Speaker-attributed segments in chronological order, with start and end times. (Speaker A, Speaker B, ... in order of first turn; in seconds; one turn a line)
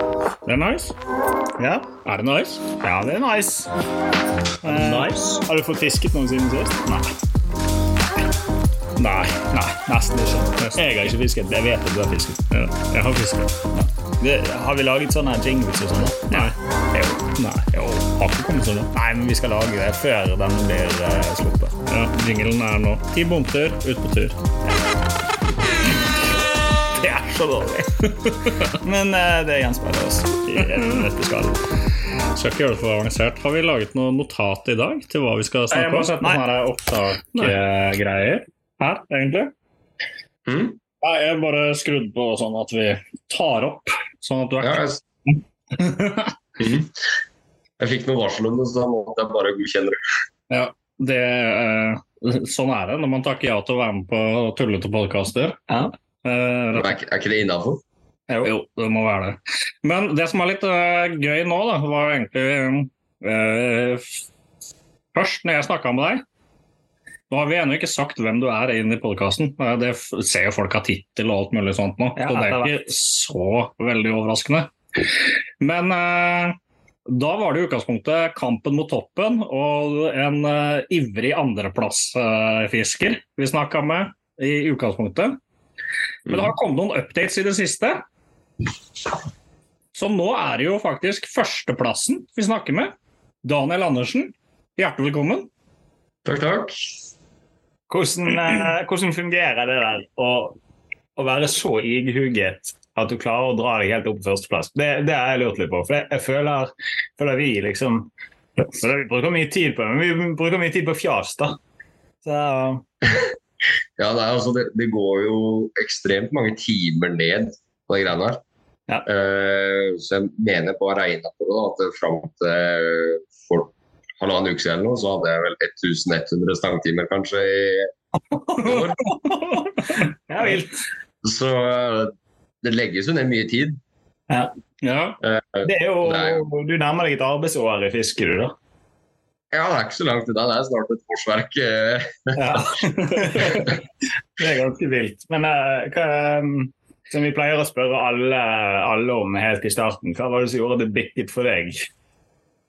Speaker A: 0.5-1.0
Speaker B: 1.6-1.9
Speaker A: 2.0-2.7
Speaker B: 2.8-3.7
Speaker A: 4.6-5.4
Speaker B: 4.6-7.1
Speaker A: 9.0-9.8
Speaker B: 9.7-12.4
Speaker A: 10.6-11.0
Speaker A: 12.5-13.5
Speaker B: 13.7-17.3
Speaker A: 17.4-18.9
Speaker B: 18.9-21.8
Speaker A: 21.9-24.4
Speaker B: 27.0-27.9
Speaker A: 28.2-28.8
Speaker B: 28.7-31.6
Speaker A: 30.5-31.1
Speaker A: 32.4-39.5
Speaker B: 35.7-36.4
Speaker C: 40.5-40.8
Speaker A: 41.0-44.8
Speaker C: 44.6-45.0
Speaker A: 45.7-46.3
Speaker C: 46.6-46.9
Speaker C: 47.8-50.0
Speaker A: 50.5-55.6
Speaker A: 56.2-56.9
Speaker C: 56.8-57.8
Speaker A: 58.4-64.1
Speaker A: 65.1-66.2
Speaker A: 67.3-74.7
Speaker B: 72.2-72.7
Speaker A: 75.6-85.4
Speaker C: 86.3-86.5
Speaker A: 86.3-88.0
Speaker A: 90.0-95.5
Speaker C: 96.2-96.9
Speaker B: 97.9-100.6
Speaker B: 101.2-111.6
Speaker B: 112.2-112.8
Speaker C: 114.0-118.4
Speaker C: 119.1-127.9
Speaker B: 128.3-130.7
Speaker C: 128.6-129.1
Speaker C: 131.2-133.8
Speaker A: 134.8-135.2
Speaker C: 135.2-136.4
Speaker B: 135.6-138.6
Speaker C: 139.5-142.6
Speaker B: 142.4-143.8
Speaker C: 143.4-143.7
Speaker B: 144.4-151.8